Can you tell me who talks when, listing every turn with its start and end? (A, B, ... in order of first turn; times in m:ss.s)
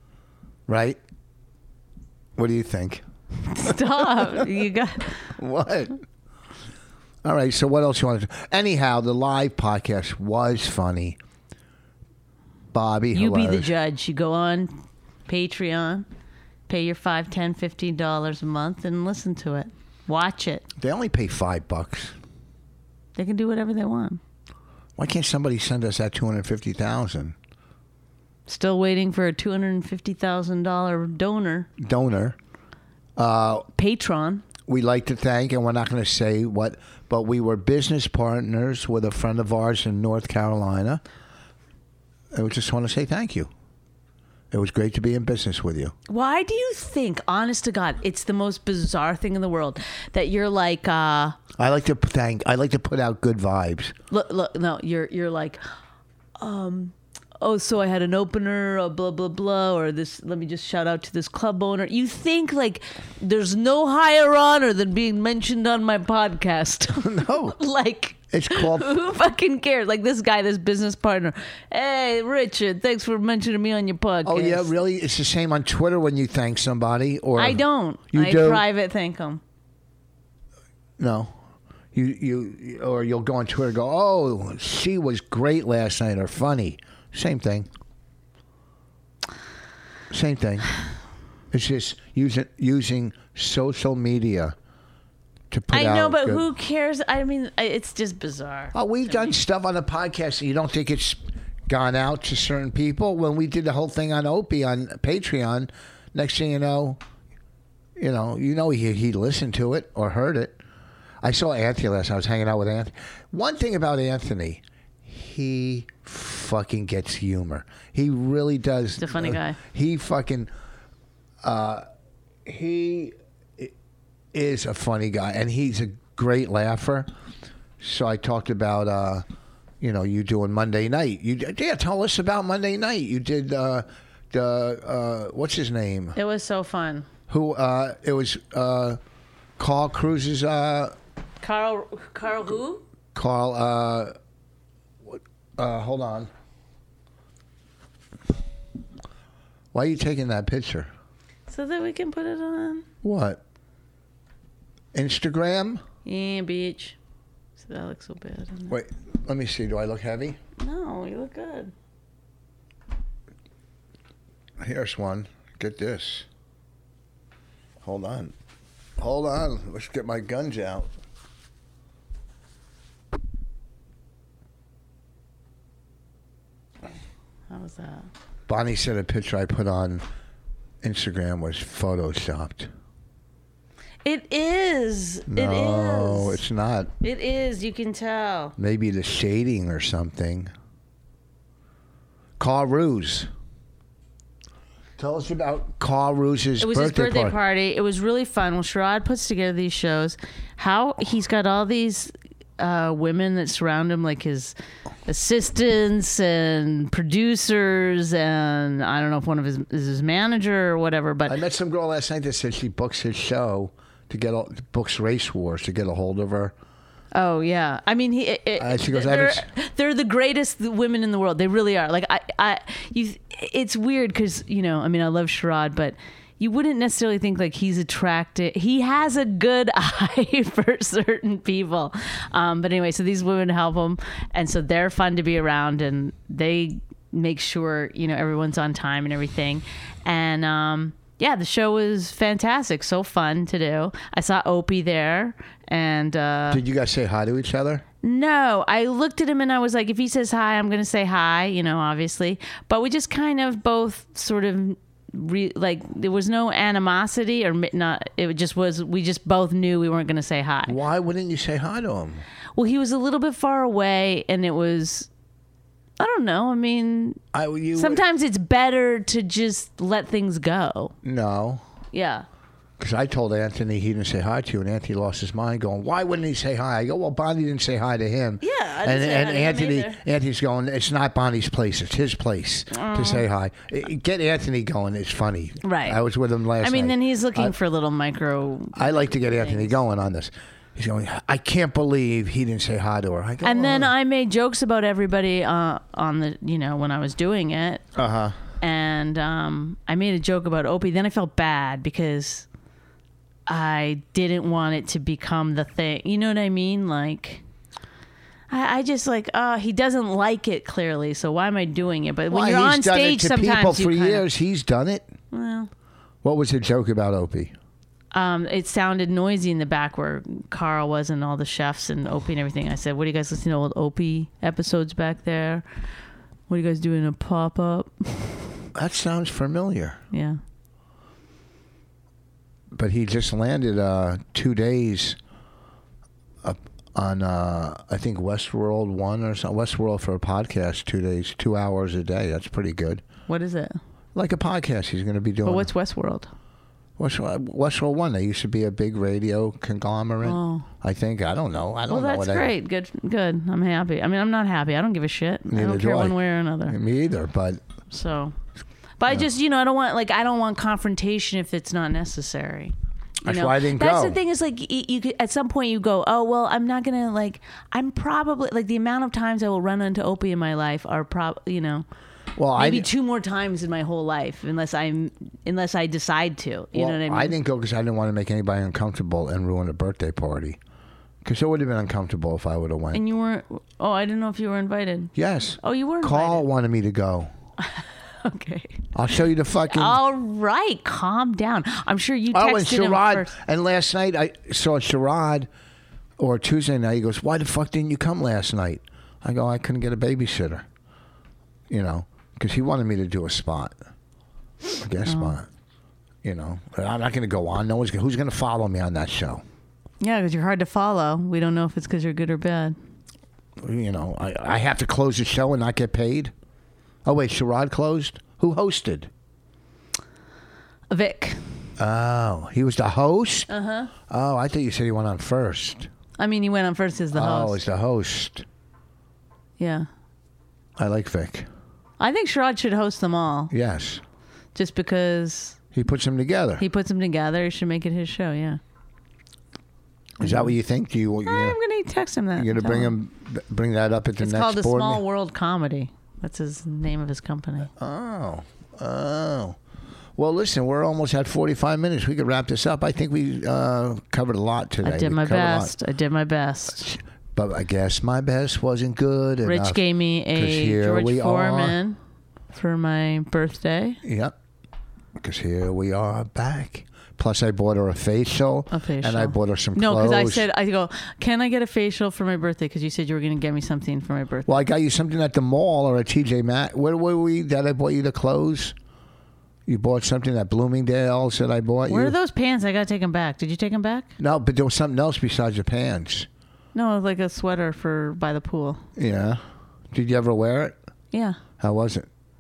0:00.7-0:01.0 A
0:02.4-0:03.0 A
0:03.5-0:05.3 B
0:03.6-0:04.4 A
0:05.4-0:06.0 A
0:07.2-0:11.2 A
0:12.7-0:13.7 A
0:13.1-0:14.7 B
0:15.3-0:16.1 B
0:16.7-0:20.7 B
0:20.8-0:22.2 A
0:23.2-0:24.2 B
0:25.0-0:27.4 A
0:28.5-0:31.7 B
0:31.8-0:32.4 A
0:33.2-0:33.7 A
0:33.8-0:34.4 B
0:34.7-0:41.0 A
0:42.3-0:43.5 A
0:44.5-0:46.0 A
0:46.1-0:51.4 B
0:51.6-0:54.0 A
0:54.1-0:55.6 B
0:56.4-1:14.7 B
1:07.0-1:07.6 A
1:08.3-1:09.0 A
1:14.2-1:18.6 A
1:17.4-1:19.4 B
1:21.0-1:21.4 A
1:21.9-1:27.7 A
1:30.1-1:30.7 A
1:31.5-1:34.6 A
1:35.5-1:36.5 A
1:35.7-1:39.4 B
1:38.7-1:47.0 A
1:48.0-1:50.6 A
1:51.2-2:00.5 A
1:59.0-1:59.6 B
2:01.4-2:01.8 A
2:02.5-2:03.7 A
2:04.3-2:07.1 A
2:07.8-2:09.2 A
2:09.8-2:16.2 A
2:16.2-2:17.1 B
2:17.3-2:19.0 A
2:19.6-2:21.0 A
2:21.4-2:22.8 B
2:23.1-2:24.1 A
2:25.0-2:26.3 A
2:29.7-2:30.9 A
2:31.5-2:32.9 B
2:33.0-2:33.4 A
2:34.9-2:35.8 A
2:36.0-2:37.0 B
2:37.6-2:38.8 B
2:38.7-2:40.4 A
2:40.6-2:41.7 B
2:44.6-2:46.3 A
2:47.8-2:48.3 A
2:49.0-2:50.9 A
2:57.5-2:58.1 B
2:58.5-3:00.0 A
3:00.8-3:02.7 A
3:04.0-3:06.4 B
3:05.3-3:06.9 A
3:07.0-3:08.6 B
3:08.6-3:10.5 A
3:12.4-3:13.3 A
3:15.0-3:17.4 A
3:16.6-3:24.6 B
3:25.1-3:31.4 B
3:31.3-3:36.5 A
3:37.2-4:06.6 B
3:38.6-3:39.5 A
4:06.5-4:07.8 A
4:08.0-4:20.8 B
4:20.7-4:22.2 A
4:22.6-4:25.1 B
4:26.0-4:27.2 B
4:27.3-4:28.0 A
4:27.8-4:30.9 B
4:31.0-4:31.6 A
4:31.9-4:32.3 B
4:32.8-4:47.5 A
4:38.4-4:40.0 B
4:42.7-4:43.2 B
4:45.6-4:46.0 B
4:46.6-4:49.8 B
4:48.8-4:53.9 A
4:53.4-4:57.8 B
4:57.9-4:58.4 A
4:58.6-5:02.5 B
5:03.5-5:07.4 B
5:08.5-5:14.2 B
5:12.3-5:15.1 A
5:15.3-5:15.7 B
5:16.2-5:17.5 A
5:18.1-5:25.6 B
5:26.5-5:28.5 B
5:28.8-5:30.0 A
5:30.1-5:30.4 B
5:32.7-5:35.2 A
5:36.4-5:43.0 A
5:43.3-5:43.8 B
5:44.2-5:45.7 A
5:45.4-5:46.3 B
5:47.0-5:52.5 A
5:50.2-5:50.7 B
5:51.9-5:56.8 B
5:55.5-5:57.6 A
5:57.9-5:58.4 B
5:59.0-6:02.7 B
6:03.2-6:04.2 A
6:03.2-6:11.8 B
6:12.4-6:12.9 A
6:12.6-6:17.4 B
6:16.7-6:20.6 A
6:21.2-6:23.0 A
6:22.9-6:26.4 B
6:25.2-6:27.3 A
6:27.8-6:28.8 B
6:28.9-6:30.0 A
6:29.6-6:33.3 B
6:32.3-6:35.5 A
6:36.2-6:40.7 A
6:41.7-6:43.8 A
6:44.6-6:45.5 A
6:45.1-6:45.4 B
6:46.2-6:49.4 A
6:50.0-6:52.8 B
6:53.6-6:56.3 A
6:57.0-6:59.1 A
7:00.9-7:01.4 B
7:01.8-7:03.5 A
7:03.5-7:03.9 B
7:04.1-7:05.9 A
7:06.2-7:07.6 B
7:07.1-7:08.4 A
7:09.6-7:09.9 B
7:10.8-7:11.5 A
7:12.0-7:13.5 B
7:13.5-7:14.0 A
7:14.6-7:15.6 B
7:15.7-7:16.6 A
7:16.6-7:18.6 B
7:20.2-7:20.5 B
7:20.2-7:21.6 A
7:21.2-7:23.0 B
7:22.4-7:25.0 A
7:24.2-7:27.7 B
7:27.8-7:29.6 A
7:30.2-7:35.7 A
7:34.8-7:36.8 B
7:36.8-7:41.8 A
7:39.4-7:42.0 B
7:42.5-7:44.0 B
7:44.0-7:44.4 A
7:45.2-7:50.5 A
7:48.7-7:54.6 B
7:54.5-7:58.8 A
7:59.7-8:02.2 A
8:01.9-8:04.1 B
8:04.2-8:06.3 A
8:06.7-8:08.8 B
8:09.0-8:10.8 A
8:11.1-8:11.4 B
8:11.6-8:12.1 A